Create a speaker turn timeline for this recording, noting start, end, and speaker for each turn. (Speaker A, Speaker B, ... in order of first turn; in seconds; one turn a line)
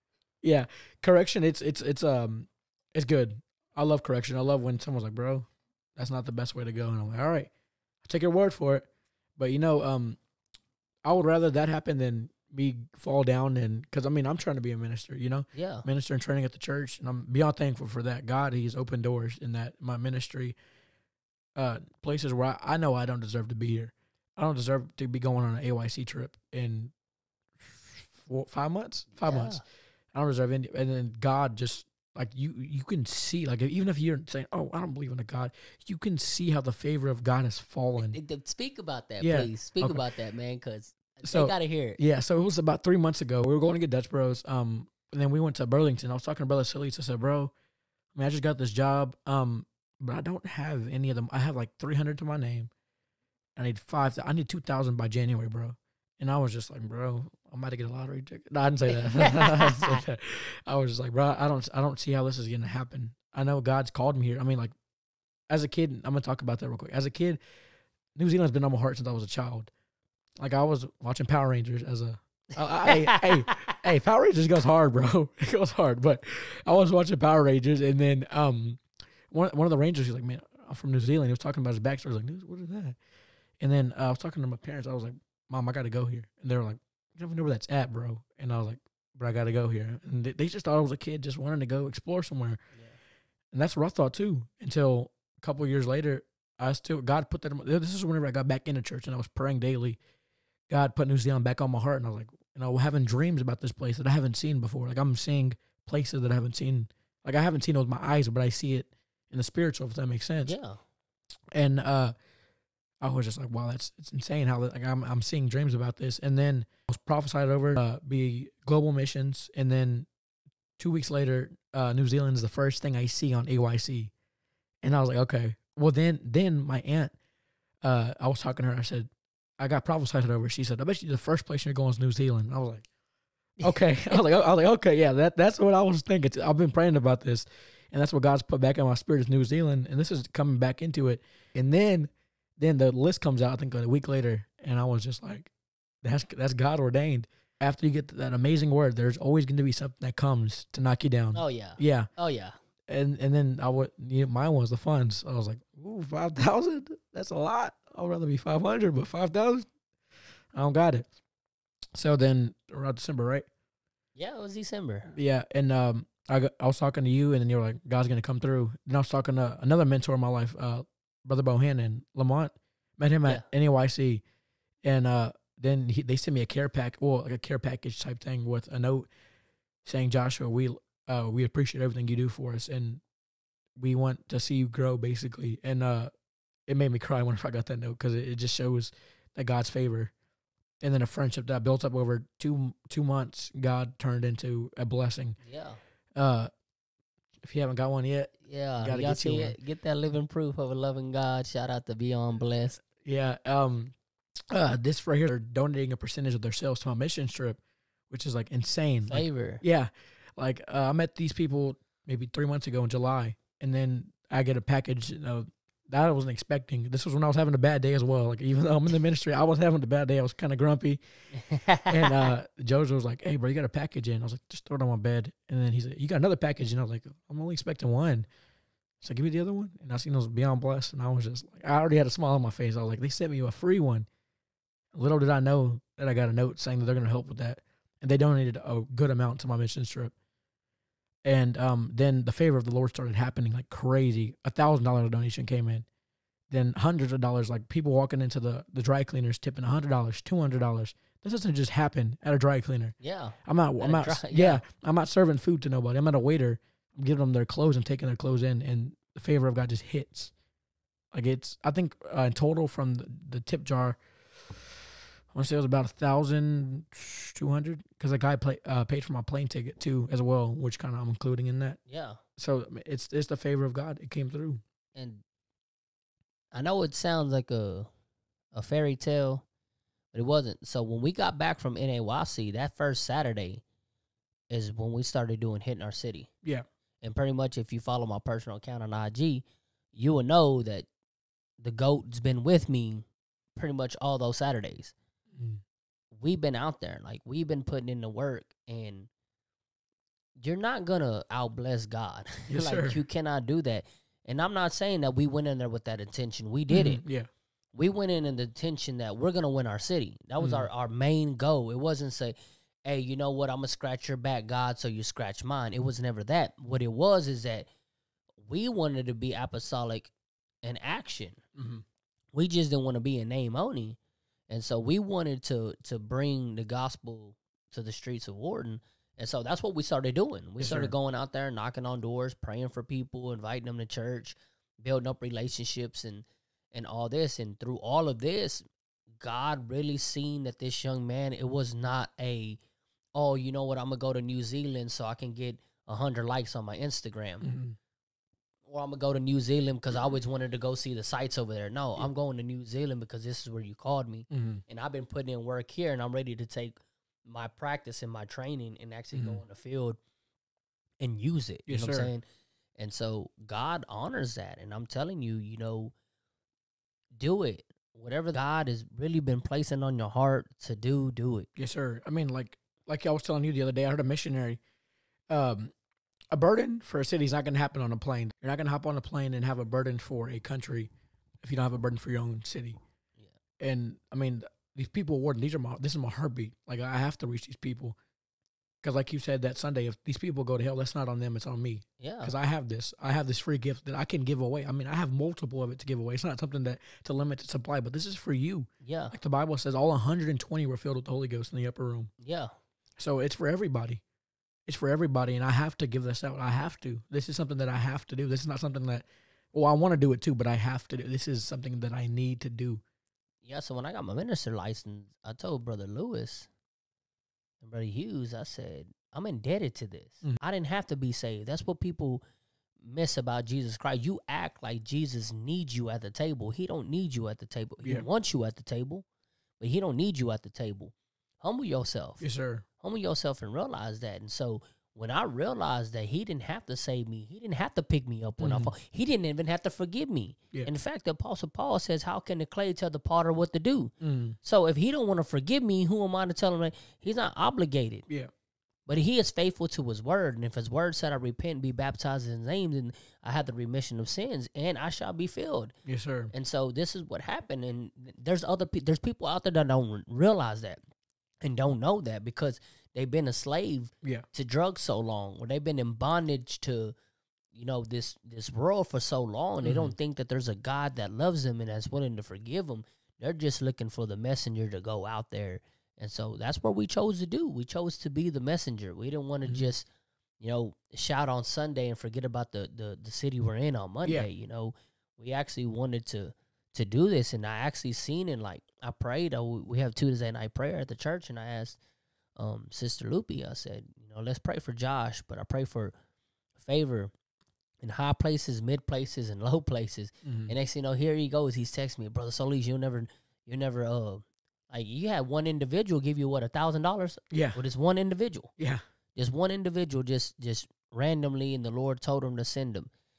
Speaker A: 0.4-7.5
Speaker A: 8.0-10.2
Speaker A: 11.0-20.6
Speaker B: 15.5-15.9
Speaker A: 21.6-26.9
Speaker A: 27.6-29.6
Speaker B: 29.2-29.6
Speaker A: 30.1-38.2
Speaker B: 38.0-42.0
Speaker A: 39.2-40.0
Speaker A: 41.2-47.5
Speaker A: 48.1-52.7
Speaker A: 53.6-64.7
Speaker B: 59.2-60.0
Speaker A: 65.5-67.4
Speaker A: 68.2-69.7
Speaker A: 70.4-83.0
Speaker B: 72.8-73.8
Speaker A: 83.6-92.6
Speaker A: 93.5-100.0
Speaker A: 100.7-110.5
Speaker B: 110.4-110.8
Speaker A: 111.5-112.2
Speaker A: 113.0-120.1
Speaker A: 120.8-124.1
Speaker A: 124.8-127.1
Speaker A: 127.8-132.9
Speaker B: 133.6-134.2
Speaker A: 133.6-145.5
Speaker A: 146.0-152.1
Speaker B: 151.3-152.6
Speaker A: 152.9-159.7
Speaker A: 160.5-161.1
Speaker A: 161.9-163.5
Speaker B: 164.2-165.1
Speaker A: 165.1-174.2
Speaker A: 174.8-179.1
Speaker A: 179.8-183.0
Speaker A: 183.8-186.1
Speaker A: 186.7-190.1
Speaker A: 190.8-195.4
Speaker B: 195.4-195.8
Speaker A: 196.2-196.5
Speaker A: 197.4-199.6
Speaker B: 198.4-202.8
Speaker A: 202.8-203.9
Speaker A: 204.5-207.6
Speaker A: 208.1-221.0
Speaker B: 209.1-209.6
Speaker B: 221.3-222.3
Speaker A: 221.9-228.3
Speaker A: 229.0-234.1
Speaker A: 234.9-240.1
Speaker A: 241.2-245.9
Speaker A: 246.5-260.3
Speaker B: 253.0-254.6
Speaker A: 261.1-264.7
Speaker A: 265.3-271.8
Speaker B: 271.9-272.2
Speaker A: 272.4-274.6
Speaker B: 274.9-275.2
Speaker B: 276.5-277.9
Speaker B: 278.5-279.4
Speaker B: 280.1-283.6
Speaker B: 284.5-286.3
Speaker B: 287.0-290.9
Speaker B: 291.6-294.9
Speaker A: 295.3-295.6
Speaker B: 296.1-299.1
Speaker B: 300.4-307.0
Speaker A: 302.5-303.0
Speaker A: 306.7-307.3
Speaker B: 307.8-317.7
Speaker A: 310.4-310.7
Speaker B: 318.4-320.1
Speaker B: 320.6-321.4
Speaker A: 321.6-321.8
Speaker B: 322.3-324.0
Speaker B: 324.5-338.6
Speaker A: 330.6-330.9
Speaker B: 339.2-342.6
Speaker B: 343.1-347.5
Speaker A: 347.4-347.8
Speaker B: 348.7-360.0
Speaker A: 354.3-354.6
Speaker A: 359.1-359.4
Speaker B: 361.0-362.2
Speaker A: 361.7-362.1
Speaker B: 362.8-365.9
Speaker B: 367.2-371.5
Speaker A: 371.6-374.6
Speaker A: 375.3-375.7
Speaker A: 376.3-380.9
Speaker A: 381.4-382.8
Speaker A: 383.6-388.0
Speaker A: 388.8-402.1
Speaker B: 392.0-392.3
Speaker B: 398.8-399.1
Speaker B: 402.2-402.5
Speaker A: 403.0-404.0
Speaker A: 404.7-412.8
Speaker B: 413.4-416.5
Speaker B: 417.6-422.2
Speaker B: 422.8-429.1
Speaker B: 429.6-432.2
Speaker A: 432.2-432.6
Speaker B: 432.8-443.9
Speaker A: 438.4-438.7
Speaker A: 444.0-444.4
Speaker B: 444.4-448.1
Speaker B: 448.9-455.7
Speaker A: 455.9-456.3
Speaker B: 456.3-460.8
Speaker B: 461.4-466.9
Speaker B: 467.5-479.9
Speaker A: 469.6-469.9
Speaker B: 480.4-491.8
Speaker B: 492.4-495.9
Speaker B: 496.6-497.1
Speaker B: 497.8-508.5
Speaker A: 500.2-500.5
Speaker A: 507.3-507.6
Speaker B: 509.1-512.9